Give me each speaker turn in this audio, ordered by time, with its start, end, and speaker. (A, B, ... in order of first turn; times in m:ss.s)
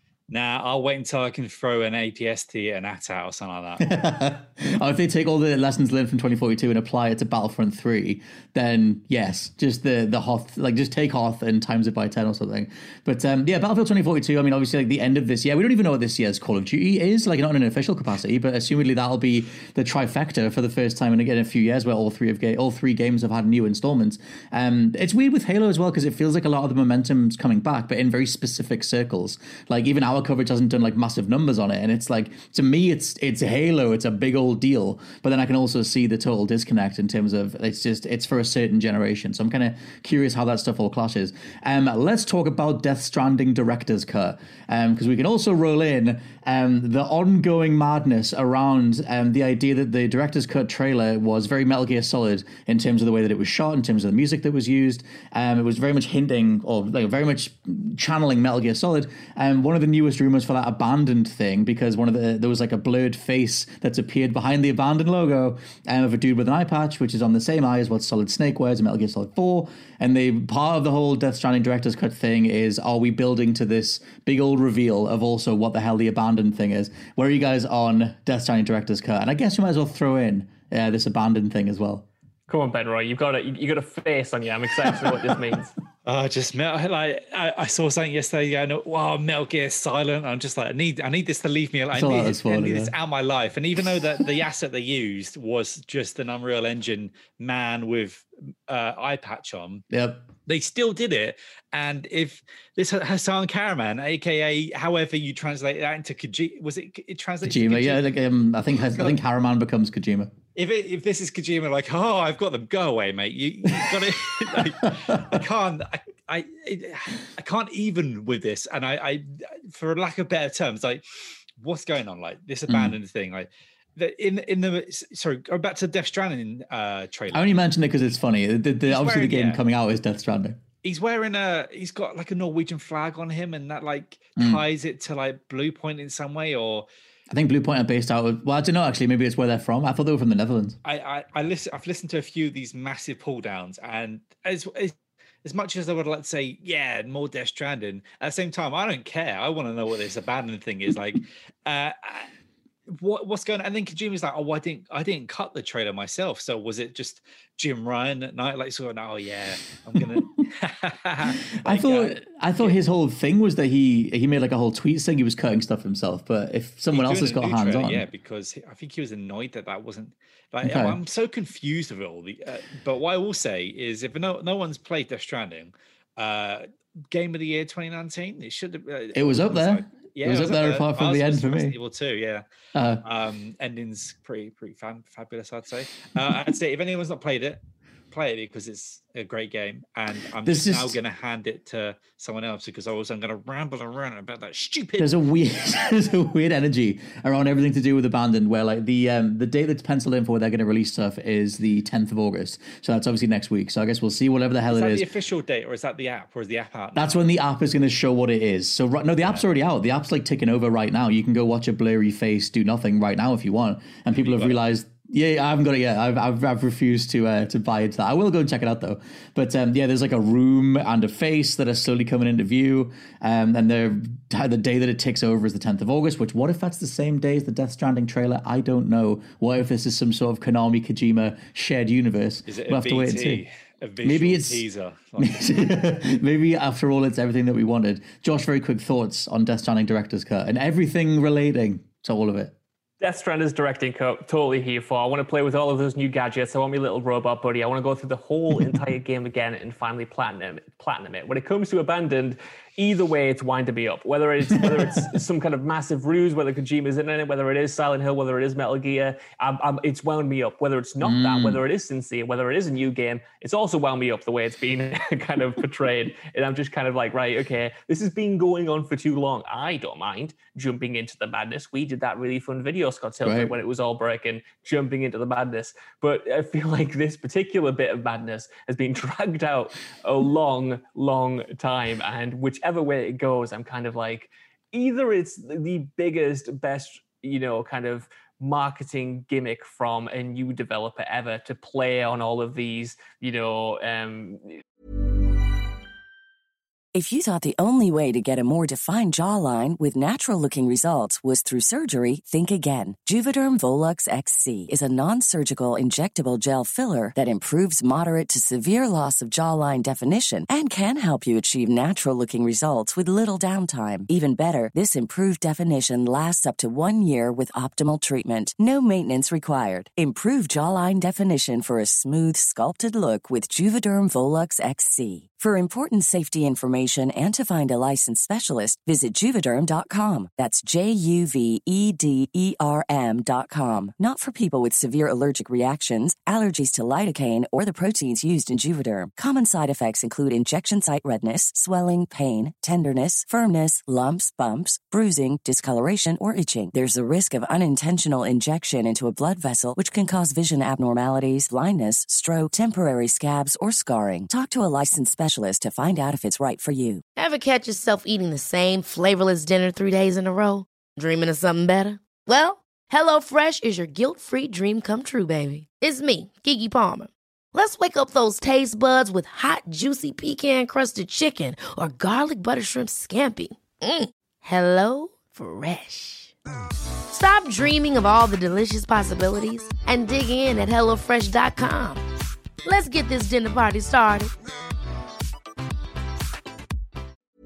0:00.3-0:03.9 A
0:03.8-1:22.0 B
1:22.5-1:25.7 C
1:26.0-1:39.8 A
1:31.9-1:32.9 B
1:39.9-1:40.3 B
1:40.4-1:48.1 A
1:47.4-1:50.3 B
1:50.6-2:01.0 A
1:54.9-1:55.3 B
2:01.6-2:07.6 A
2:02.7-2:03.0 B
2:07.3-2:10.6 B
2:08.9-2:09.6 A
2:10.8-2:16.8 A
2:14.4-2:14.6 B
2:17.3-2:20.8 B
2:20.8-2:32.3 A
2:32.9-2:42.8 A
2:41.3-2:48.0 B
2:46.9-3:02.4 A
2:50.6-2:51.0 B
2:59.1-3:01.7 B
3:02.7-3:03.0 B
3:03.0-3:15.2 A
3:10.4-3:11.0 B
3:15.0-3:25.0 B
3:24.7-3:27.2 A
3:26.9-3:53.4 B
3:34.1-3:34.6 A
3:52.5-3:55.7 A
3:54.0-3:54.6 B
3:55.2-4:02.5 B
4:03.0-4:54.6 C
4:21.0-4:21.6 B
4:33.2-4:33.5 B
4:56.9-5:57.0 D
5:57.2-6:16.3 E
6:17.1-6:22.0 E
6:22.6-6:24.3 E